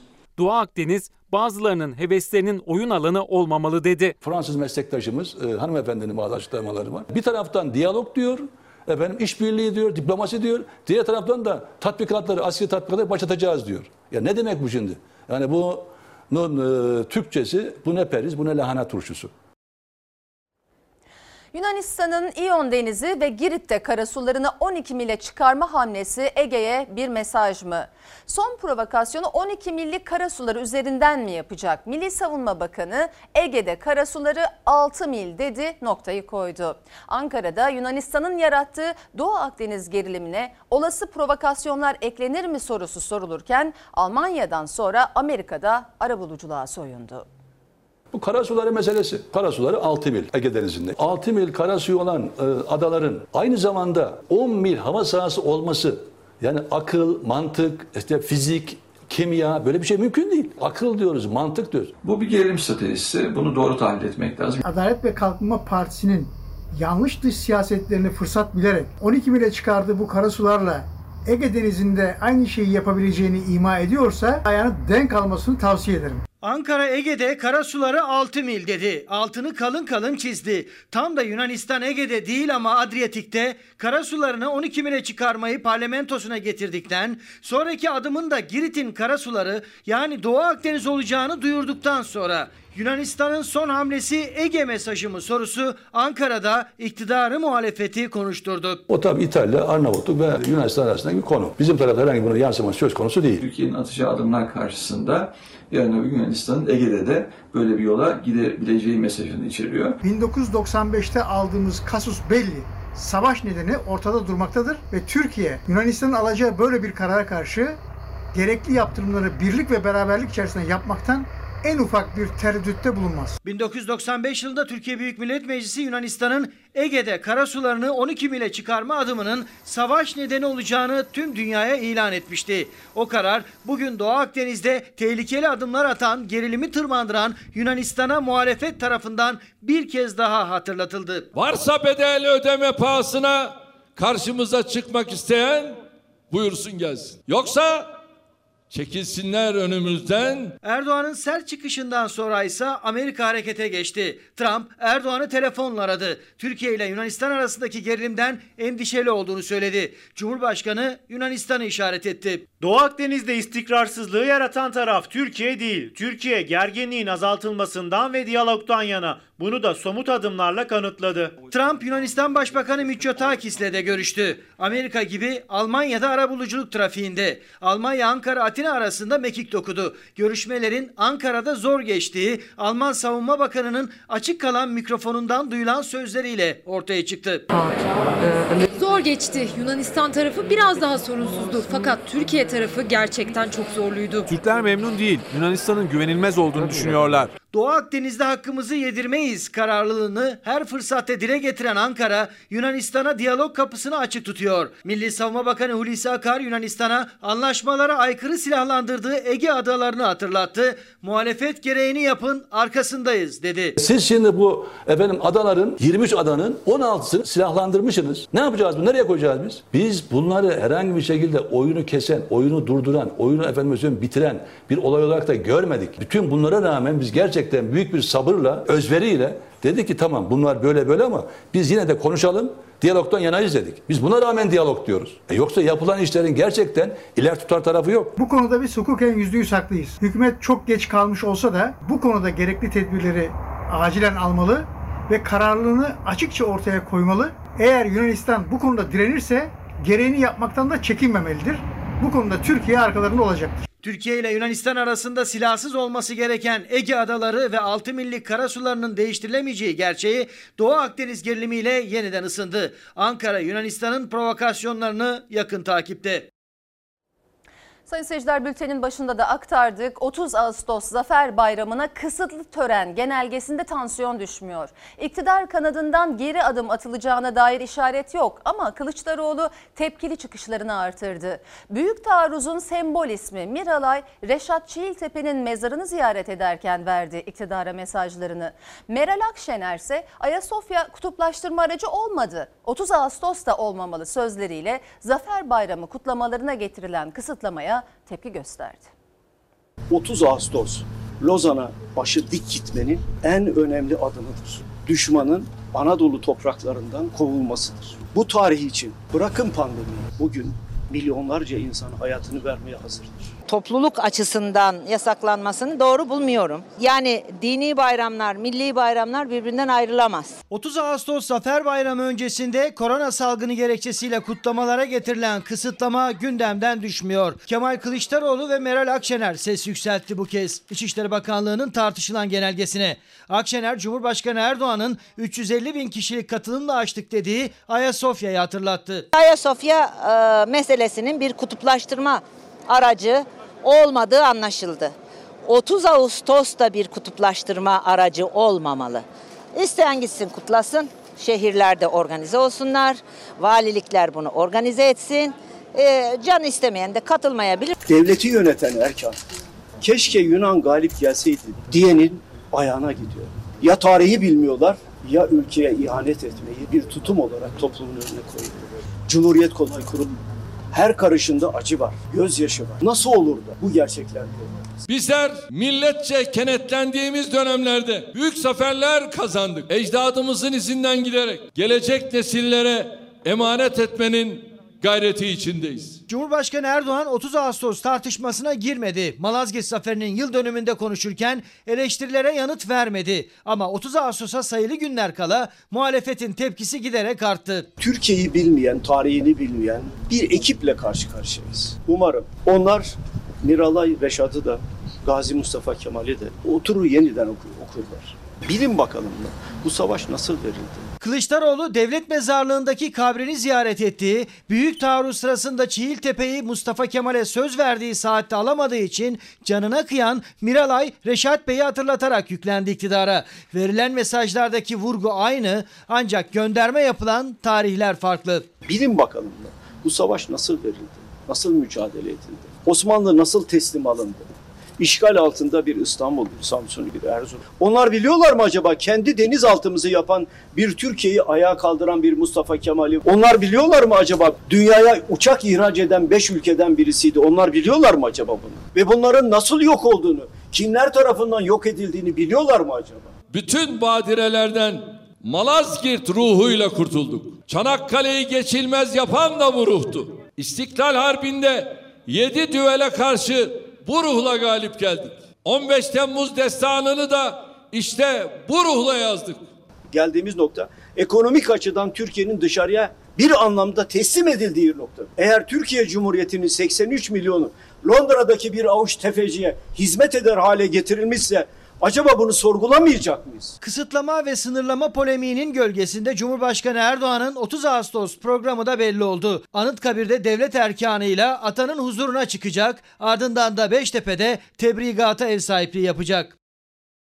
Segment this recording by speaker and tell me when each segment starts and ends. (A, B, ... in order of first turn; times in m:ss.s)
0:00.4-0:04.2 A
0:04.2-0:19.3 B
0:21.5-0:47.3 C
0:48.1-1:01.9 B
1:02.0-1:04.6 D
1:04.6-1:16.2 E
1:16.4-1:38.8 F
1:38.9-1:43.4 B
1:43.4-1:50.0 D
1:50.0-1:57.8 E
1:58.3-2:03.4 E
2:03.4-2:21.3 F
2:21.3-2:25.8 G
2:26.3-2:28.0 G
2:28.7-2:30.6 G
2:30.6-2:42.5 F
2:43.5-2:43.9 H
2:44.6-2:49.6 H
2:50.3-2:51.2 H
2:51.4-3:07.5 F
3:08.7-3:14.3 I
3:14.3-3:17.3 J
3:17.5-3:33.8 F
3:33.8-3:58.2 B
3:58.2-4:13.6 E
4:13.8-4:26.3 F
4:27.9-4:58.9 C
4:59.9-5:13.3 K
5:13.5-5:20.4 L
5:20.5-5:39.1 F
5:39.1-5:44.9 L
5:45.4-5:57.7 L
5:57.9-5:59.2 K
5:59.8-6:10.2 K
6:10.7-6:14.8 K
6:14.9-6:26.0 G
6:26.1-6:37.7 F
6:37.8-6:50.9 K
6:51.0-7:08.5 F
7:08.7-7:14.3 K
7:14.8-7:33.1 K
7:33.3-7:49.5 G
7:49.9-8:03.6 K
8:03.6-8:16.4 F